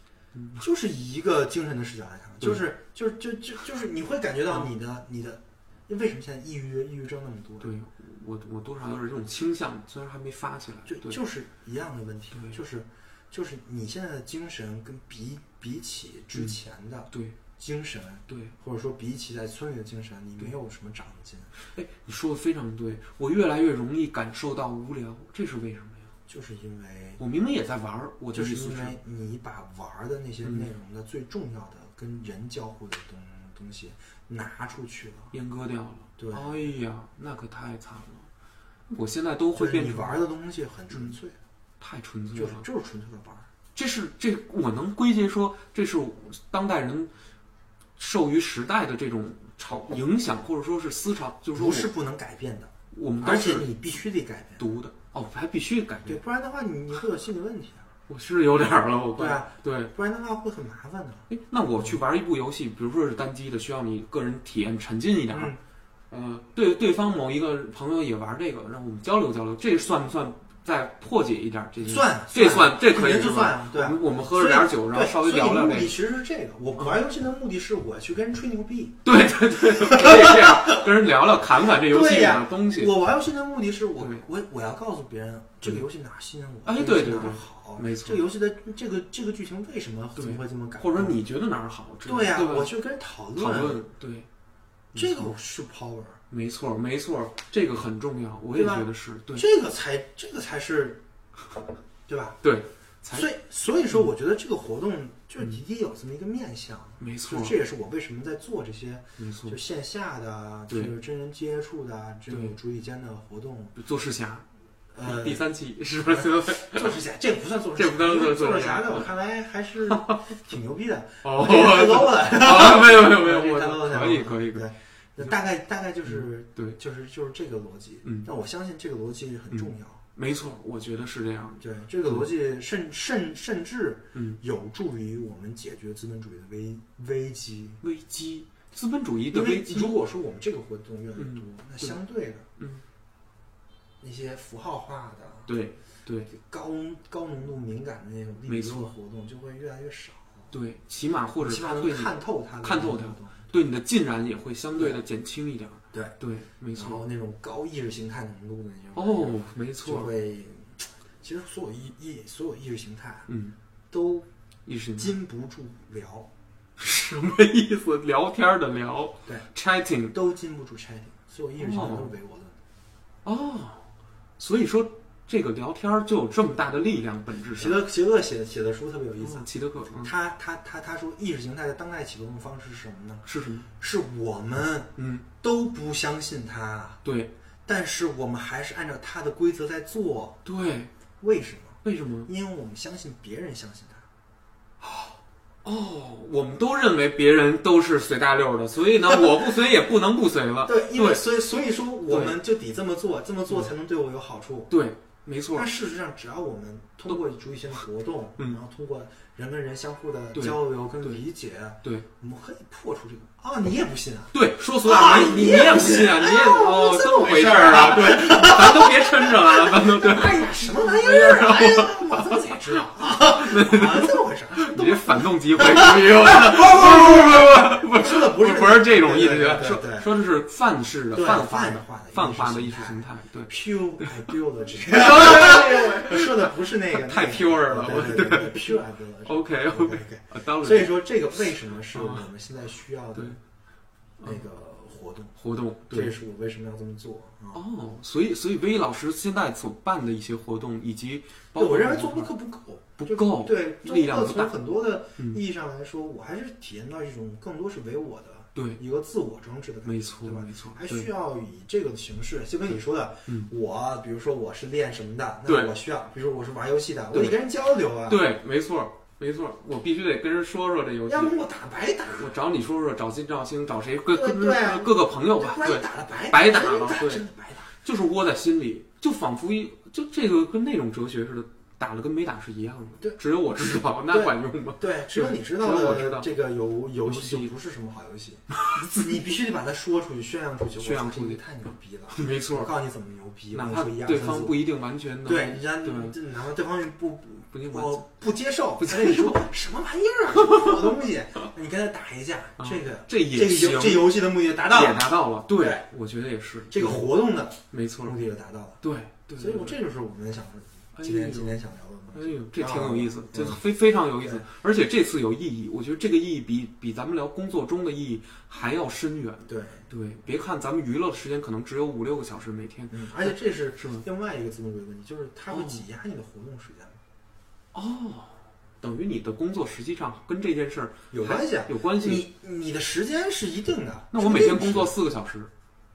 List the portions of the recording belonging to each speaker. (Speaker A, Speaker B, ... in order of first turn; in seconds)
Speaker A: 0.3-0.6, 7.6-11.2, 18.3-18.5, 21.6-26.1, 27.2-29.0, 35.3-38.3, 38.9-40.2, 41.8-42.7, 43.8-47.1, 48.0-51.9, 52.9-53.7, 54.6-56.2, 58.1-59.9, 61.3-65.6, 66.1-76.0, 79.0-83.0, 84.0-84.2, 86.7-88.3, 90.2-92.7, 93.3-94.3, 94.9-95.3, 96.3-99.5, 102.4-103.3, 107.0-107.6, 109.2-109.6, 110.7-110.9, 113.8-114.5, 115.0-117.0, 117.8-119.1, 119.9-120.2, 121.2-124.7, 126.1-126.8, 129.5-132.2, 134.1-134.4, 137.8-140.0, 141.2-142.0, 142.6-142.8, 145.5-146.3, 148.5-148.9, 150.5-157.0, 158.9-160.1, 163.3-163.6, 164.7-165.1, 166.8-170.2, 171.6-172.2, 173.2-173.9, 174.4-177.8, 179.2-180.1, 183.2-183.7, 185.0-185.3, 187.0-187.3, 190.4-190.9, 191.8-192.3, 194.8-201.2, 202.1-202.4, 204.7-205.7, 210.3-211.2, 214.3-242.2, 245.4-246.2, 247.5-252.3, 253.0-254.6, 258.6-258.8, 259.9-261.1, 265.5-265.7, 267.1-267.4, 268.1-271.4, 272.1-277.2, 277.8-286.3, 287.0-287.5, 290.8-291.4, 292.1-292.7, 293.5-296.2, 297.5-298.0, 298.8-299.4, 300.4-300.9, 302.6-307.1, 307.7-308.1, 308.8-309.8, 311.0-324.0, 325.5-325.8, 327.7-332.3, 334.1-335.5
Speaker B: 0.6-7.7, 10.9-21.5, 26.3-27.2, 28.3-35.3, 36.2-36.7, 39.5-41.4, 42.3-43.5, 51.5-54.8, 56.1-57.9, 59.2-61.3, 65.3-65.6, 71.8-79.0, 79.6-80.9, 81.5-91.2, 92.1-93.8, 94.9-96.2, 98.5-101.0, 102.1-102.4, 103.1-113.8, 114.9-115.4, 116.0-130.0, 131.6-137.8, 139.3-142.5, 144.0-145.5, 146.3-150.5, 151.4-153.5, 154.8-155.0, 156.8-163.3, 163.9-164.3, 165.0-166.3, 170.1-172.6, 177.5-183.3, 183.8-187.0, 187.7-190.4, 191.2-194.1, 199.1-199.4, 200.7-204.7, 205.5-230.1, 231.1-243.4, 244.2-245.3, 245.9-247.6, 251.6-268.2, 271.1-272.3, 274.1-277.7, 284.1-294.6, 295.3-305.1, 305.6-305.9, 306.7-308.8, 309.4-313.6, 319.5-319.8, 322.9-327.0, 331.1-334.9